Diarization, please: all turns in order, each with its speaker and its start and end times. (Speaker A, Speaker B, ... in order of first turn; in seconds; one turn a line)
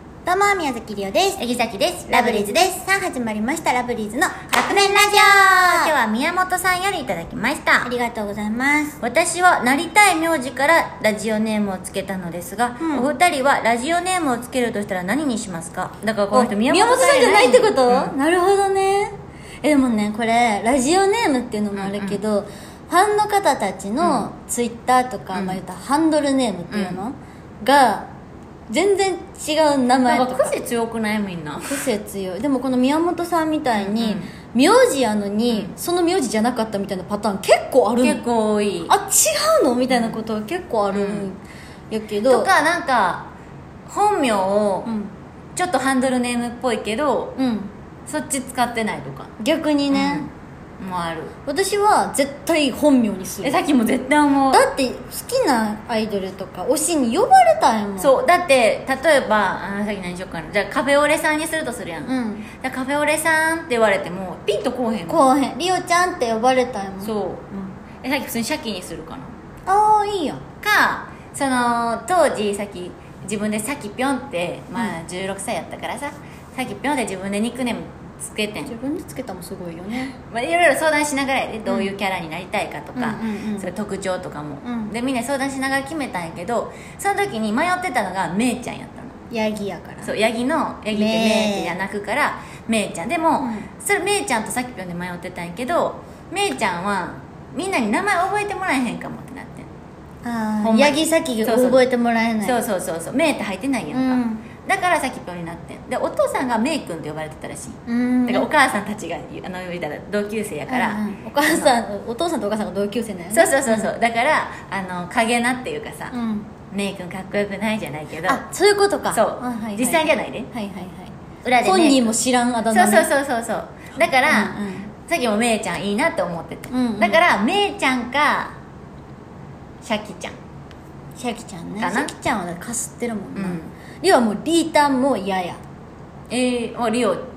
Speaker A: 0.2-1.4
Speaker B: 1.4-2.7
Speaker A: 2.1-5.9
Speaker B: 4.5-7.9
Speaker A: 7.8-8.9
Speaker B: 9.0-18.1
Speaker A: 12.8-13.1
Speaker A: 16.3-28.1
Speaker B: 21.7-22.2
Speaker B: 24.0-24.3
Speaker B: 25.3-25.6
Speaker B: 26.7-27.0
Speaker A: 28.7-30.6
Speaker B: 30.1-31.9
Speaker A: 31.6-38.2
Speaker B: 33.8-34.3
Speaker B: 35.5-35.7
Speaker B: 38.0-38.9
Speaker A: 38.9-41.4
Speaker B: 39.9-40.2
Speaker B: 40.9-41.3
Speaker A: 41.9-42.5
Speaker B: 42.2-43.3
Speaker B: 43.9-44.9
Speaker A: 44.9-45.1
Speaker B: 45.5-47.4
Speaker A: 47.4-47.7
Speaker B: 48.1-49.3
Speaker A: 49.4-50.2
Speaker B: 49.9-51.3
Speaker A: 51.5-53.6
Speaker B: 53.4-54.6
Speaker A: 54.5-58.1
Speaker B: 58.0-65.2
Speaker A: 62.0-62.5
Speaker A: 65.1-67.7
Speaker B: 67.0-69.3
Speaker A: 69.7-70.4
Speaker B: 70.6-78.7
Speaker A: 78.7-80.1
Speaker B: 79.9-89.2
Speaker A: 82.9-83.7
Speaker A: 84.6-84.9
Speaker A: 89.3-90.1
Speaker B: 90.0-99.7
Speaker A: 90.9-91.7
Speaker A: 93.4-93.7
Speaker A: 100.2-102.6
Speaker B: 100.6-101.8
Speaker B: 102.4-111.7
Speaker A: 103.9-104.5
Speaker A: 107.9-108.5
Speaker A: 110.7-113.9
Speaker B: 113.3-116.1
Speaker A: 116.1-116.5
Speaker B: 116.7-118.4
Speaker A: 118.2-123.1
Speaker B: 119.1-120.5
Speaker B: 121.4-122.1
Speaker B: 122.7-128.6
Speaker A: 124.2-124.9
Speaker A: 126.7-127.2
Speaker B: 129.8-130.3
Speaker A: 131.2-135.6
Speaker B: 131.8-132.1
Speaker B: 133.3-133.7
Speaker B: 136.3-137.3